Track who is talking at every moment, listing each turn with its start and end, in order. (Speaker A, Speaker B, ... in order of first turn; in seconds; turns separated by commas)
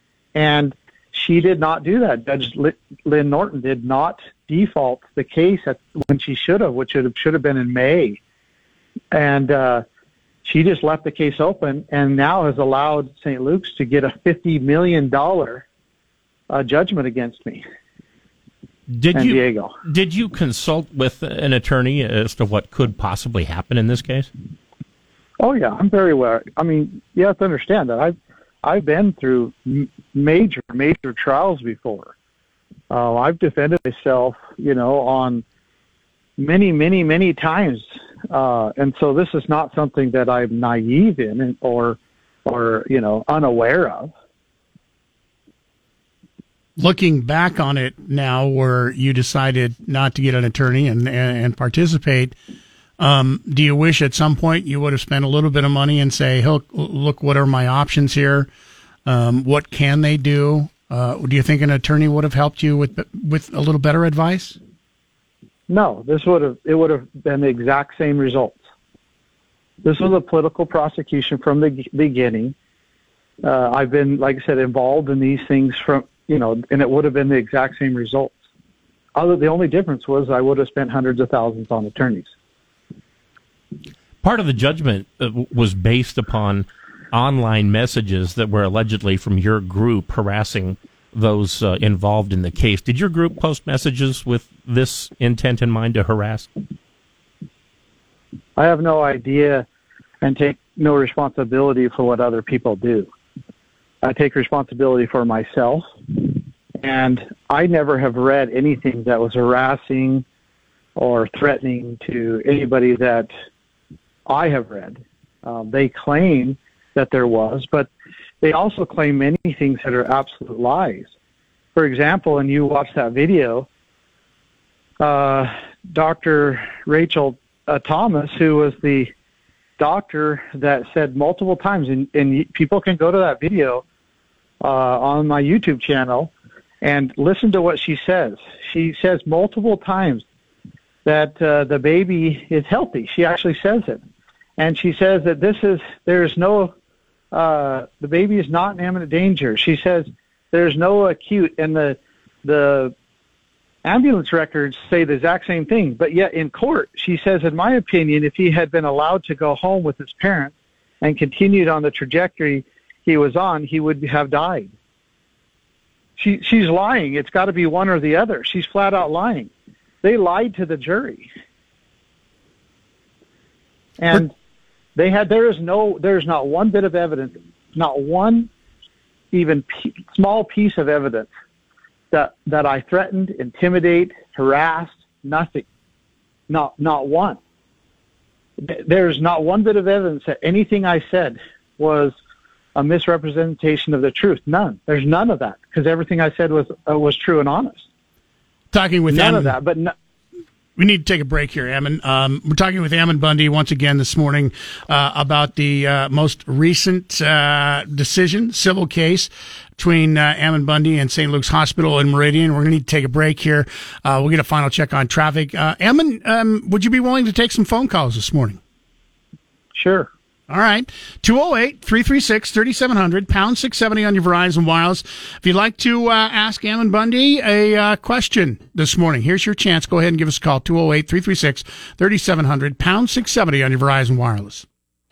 Speaker A: 0.3-8.2, Speaker A: 9.1-9.8, Speaker A: 10.4-15.7, Speaker A: 16.5-17.6, Speaker B: 18.9-24.3, Speaker A: 19.1-19.8, Speaker A: 25.4-32.1, Speaker A: 32.9-35.4, Speaker A: 36.4-44.1, Speaker C: 46.8-52.4, Speaker C: 53.0-58.5, Speaker C: 59.1-64.6, Speaker A: 65.7-68.6, Speaker A: 69.8-72.5, Speaker A: 73.4-78.4, Speaker A: 79.2-82.3, Speaker B: 84.2-96.5, Speaker A: 98.6-99.7, Speaker A: 100.2-103.1, Speaker A: 104.0-110.2, Speaker A: 111.0-113.3, Speaker A: 114.3-117.9, Speaker A: 118.4-121.1, Speaker A: 121.8-123.7, Speaker A: 125.0-129.1, Speaker A: 129.8-133.8, Speaker A: 134.6-136.3, Speaker A: 136.8-140.2, Speaker A: 141.1-144.0, Speaker A: 144.6-146.7, Speaker A: 147.3-152.9, Speaker A: 153.8-164.7, Speaker A: 166.2-169.5, Speaker A: 170.0-171.3, Speaker A: 174.0-174.3, Speaker A: 175.0-178.5, Speaker A: 179.3-181.3, Speaker A: 182.1-185.7, Speaker A: 186.5-187.4, Speaker A: 188.6-192.2, Speaker A: 192.8-197.9, Speaker C: 198.7-199.6, Speaker A: 199.1-199.9, Speaker C: 200.8-218.6, Speaker A: 219.8-220.1, Speaker C: 220.5-234.7